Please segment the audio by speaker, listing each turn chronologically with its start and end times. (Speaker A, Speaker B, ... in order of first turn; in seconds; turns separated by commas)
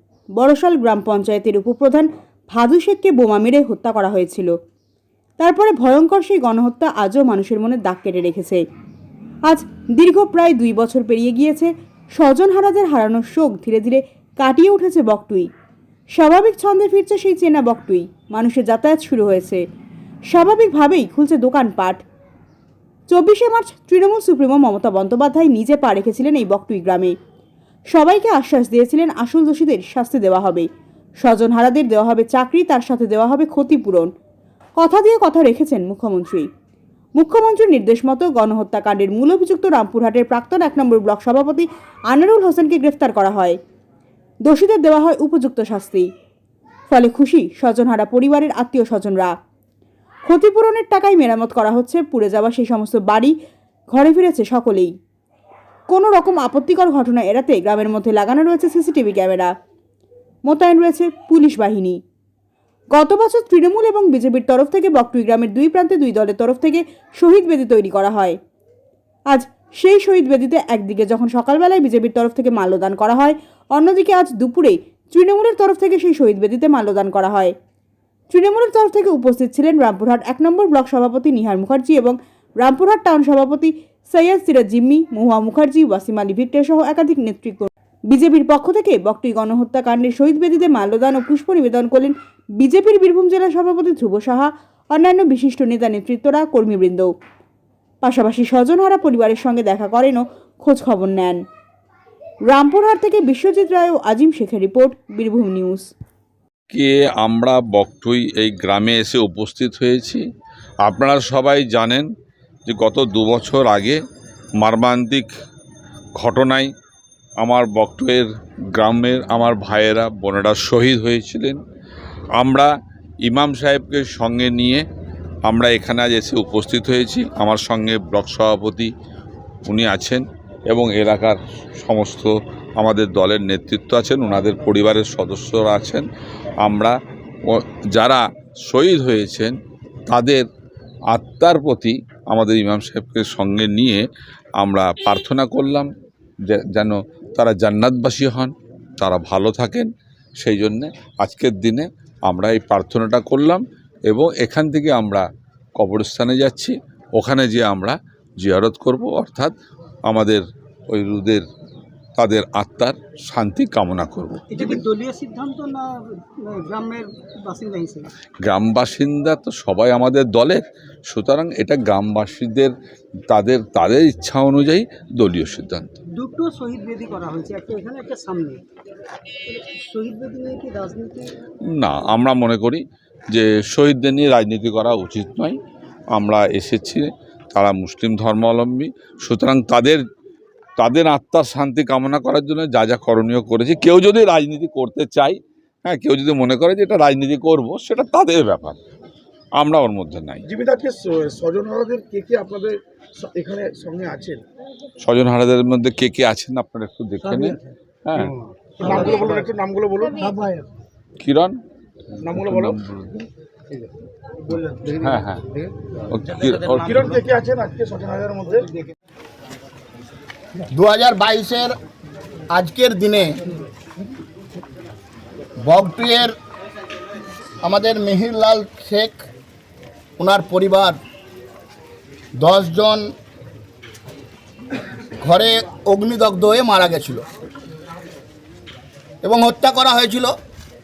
Speaker A: 0.4-4.5, Speaker A: 5.4-8.6, Speaker A: 9.5-15.5, Speaker A: 16.2-19.6, Speaker A: 20.3-22.0, Speaker A: 23.1-27.1, Speaker A: 27.9-30.7, Speaker A: 31.2-34.1, Speaker A: 34.8-36.5, Speaker A: 37.2-43.6, Speaker A: 44.5-46.1, Speaker A: 46.9-49.3, Speaker A: 50.3-53.3, Speaker A: 53.9-54.9, Speaker A: 55.9-59.5, Speaker A: 60.5-62.0, Speaker A: 62.9-68.4, Speaker A: 69.3-77.5, Speaker A: 78.3-97.1, Speaker A: 98.0-101.4, Speaker A: 102.5-105.9, Speaker B: 106.7-110.2, Speaker B: 110.9-112.1, Speaker B: 112.7-114.0, Speaker B: 114.6-115.3, Speaker B: 116.2-116.7, Speaker B: 117.4-121.6, Speaker B: 122.4-122.7, Speaker B: 123.2-124.8, Speaker B: 125.5-128.9, Speaker B: 129.7-136.1, Speaker B: 136.6-137.0, Speaker B: 137.5-139.6, Speaker B: 140.1-140.5, Speaker B: 141.1-144.1, Speaker B: 144.6-145.9, Speaker B: 146.5-149.9, Speaker B: 150.4-155.3, Speaker B: 155.8-159.5, Speaker B: 160.1-161.4, Speaker B: 162.2-164.4, Speaker C: 164.5-168.1, Speaker B: 168.5-172.7, Speaker B: 173.3-175.9, Speaker C: 176.1-178.6, Speaker C: 179.5-181.3, Speaker B: 181.8-185.6, Speaker B: 186.1-190.0, Speaker B: 190.8-198.8, Speaker B: 199.6-200.4, Speaker D: 200.5-204.4, Speaker B: 205.0-208.3, Speaker D: 208.8-210.7, Speaker B: 211.2-211.6, Speaker D: 212.2-212.8, Speaker B: 212.2-213.3, Speaker D: 214.5-215.1, Speaker B: 215.0-215.4, Speaker B: 216.1-217.2, Speaker D: 216.8-218.7, Speaker E: 220.7-221.8, Speaker E: 222.5-223.4, Speaker E: 225.6-226.3, Speaker E: 227.6-229.3, Speaker E: 230.2-231.0, Speaker E: 232.4-233.0, Speaker E: 235.2-237.2, Speaker E: 239.2-240.3